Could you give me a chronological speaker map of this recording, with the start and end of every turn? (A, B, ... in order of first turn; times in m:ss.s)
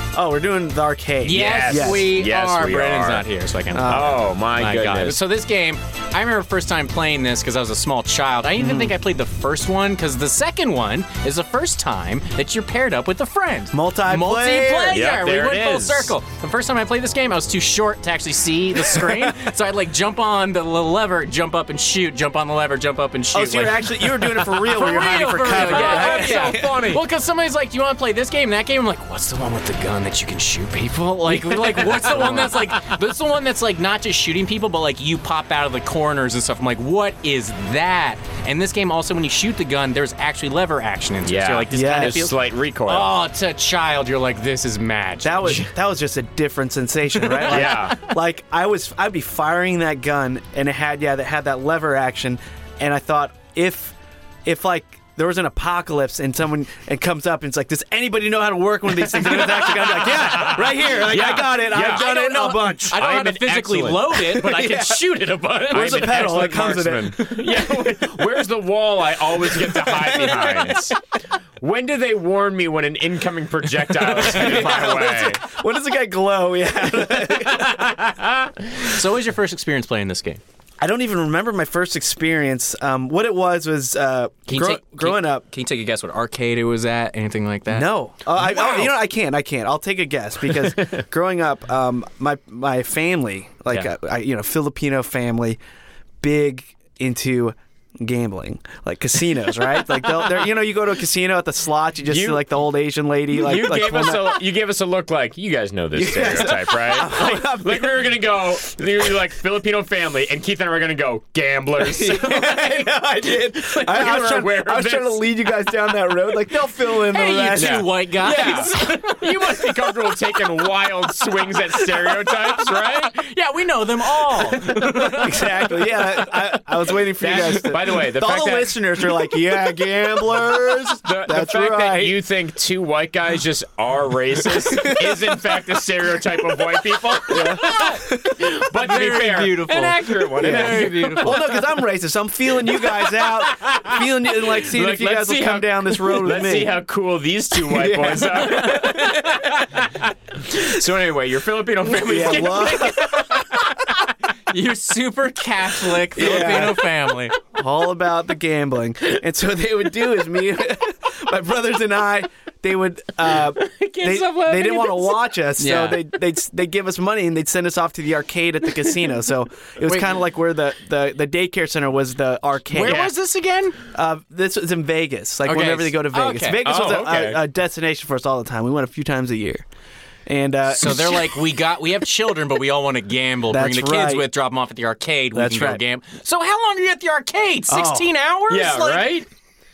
0:00.1-0:02.1 A
0:01.2-0:42.3 B
0:01.3-0:03.2 C
0:03.7-0:04.2 A
0:03.8-0:05.2 C
0:08.6-0:09.0 A
0:13.7-0:15.0 A
0:14.9-0:16.1 C
0:23.3-0:26.7 A
0:25.4-0:27.0 C
0:31.4-0:32.7 C
0:41.2-0:43.2 C
0:41.7-0:42.3 A
0:42.8-0:45.6 B
0:45.2-1:03.0 A
0:45.4-0:45.7 C
0:47.1-0:48.1 B
0:47.4-0:48.0 C
0:59.1-1:06.3 B
1:00.1-1:02.1 C
1:02.8-1:04.6 C
1:04.3-1:05.0 A
1:05.6-1:11.0 C
1:05.7-1:07.3 A
1:09.6-1:10.8 A
1:11.6-1:15.4 C
1:14.0-1:14.7 B
1:14.2-1:17.9 A
1:17.3-1:18.9 C
1:18.8-1:20.4 B
1:20.8-1:25.4 A
1:24.5-1:28.9 B
1:27.7-1:35.6 A
1:30.6-1:30.9 C
1:36.2-1:44.4 A
1:42.1-1:42.4 C
1:43.3-1:55.2 C
1:45.9-1:48.1 A
1:51.8-1:57.8 A
1:57.1-1:59.5 B
1:57.6-2:03.3 C
1:58.4-1:58.7 A
2:02.8-2:05.6 B
2:04.2-2:05.2 C
2:05.0-2:12.2 A
2:07.2-2:08.8 C
2:11.0-2:21.5 C
2:14.5-2:15.2 A
2:17.2-2:18.4 A
2:18.7-2:21.4 B
2:20.4-2:26.7 A
2:22.7-2:33.9 C
2:27.6-2:29.4 A
2:31.9-2:33.4 A
2:34.5-2:37.4 B
2:36.2-2:36.8 A
2:37.5-2:53.1 A
2:43.4-2:45.3 C
2:45.6-2:46.0 B
2:52.7-2:53.8 B
2:52.8-2:53.1 C
2:53.9-2:59.6 A
2:55.4-2:56.6 B
2:56.6-2:57.4 C
3:00.2-3:01.4 A
3:00.7-3:09.2 B
3:03.5-3:04.2 A
3:05.3-3:05.8 A
3:07.7-3:08.1 A
3:08.5-3:09.2 C